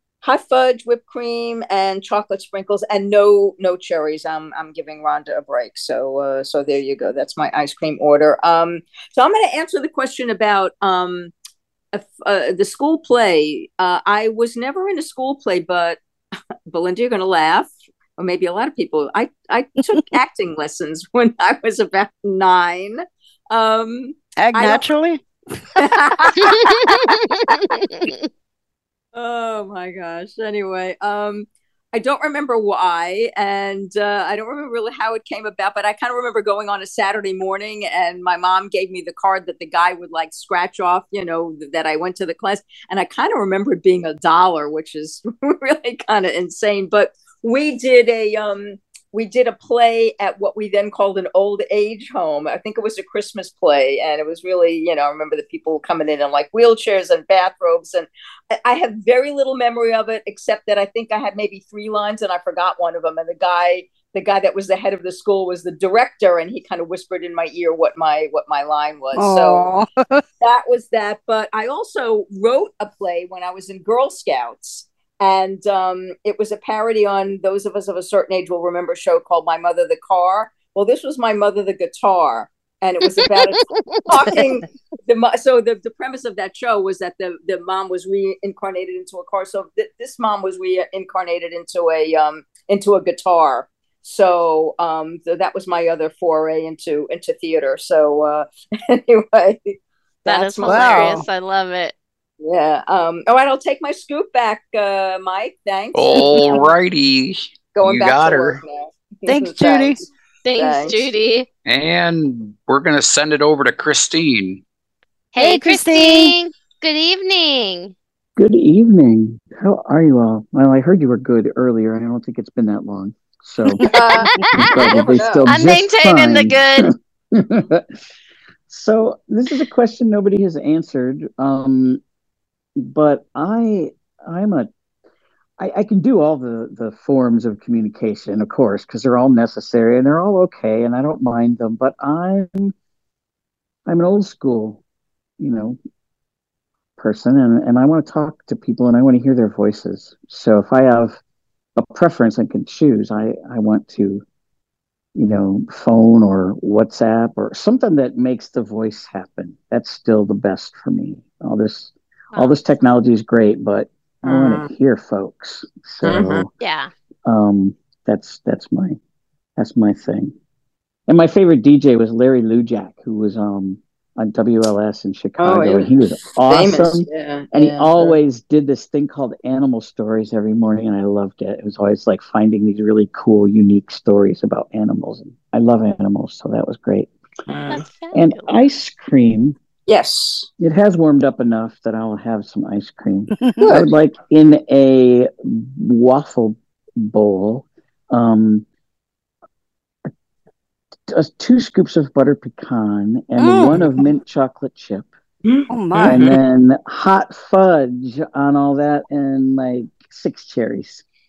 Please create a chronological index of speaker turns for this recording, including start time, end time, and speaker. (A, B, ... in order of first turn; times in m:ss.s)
0:00.2-0:11.3 A
0:11.9-0:16.0 A
0:16.7-0:24.9 A
0:24.4-0:25.2 B
0:25.8-0:26.5 A
0:27.5-0:28.3 C
0:29.1-1:09.7 A
1:09.2-1:10.2 B
1:10.4-1:41.2 A
1:23.4-1:24.0 C
1:40.2-1:41.9 C
1:40.6-1:41.2 B
1:42.4-1:46.7 A
1:45.9-1:48.6 D
1:47.7-1:50.0 A
1:49.2-1:50.0 B
1:50.4-1:51.5 C
1:50.6-1:51.1 A
1:51.6-1:54.6 D
1:55.3-1:57.9 C
1:55.4-1:56.4 B
1:58.4-2:03.8 E
2:03.8-2:04.2 B
2:03.8-2:05.6 A
2:04.5-2:06.8 E
2:05.5-2:06.9 C
2:07.4-2:07.8 E
2:08.7-2:12.0 E
2:12.8-2:14.7 E
2:15.6-2:22.7 E
2:23.8-2:24.8 E
2:25.4-2:25.8 E
2:27.0-2:31.2 E
2:31.8-2:34.2 E
2:35.1-2:46.5 E
2:42.3-2:42.6 C
2:44.2-2:44.7 A
2:46.0-2:46.4 A
2:46.6-2:46.9 C
2:47.2-2:49.0 E
2:49.6-2:50.3 E
2:51.1-3:07.1 E
2:55.4-2:58.2 A
3:07.5-3:07.8 A
3:07.7-3:08.4 C
3:08.1-3:09.6 E
3:09.9-3:10.5 A
3:10.6-3:18.6 E
3:13.6-3:13.9 A
3:21.1-3:25.1 E
3:23.4-3:23.8 B
3:25.4-3:26.4 A
3:25.7-3:26.2 B
3:26.0-3:31.0 E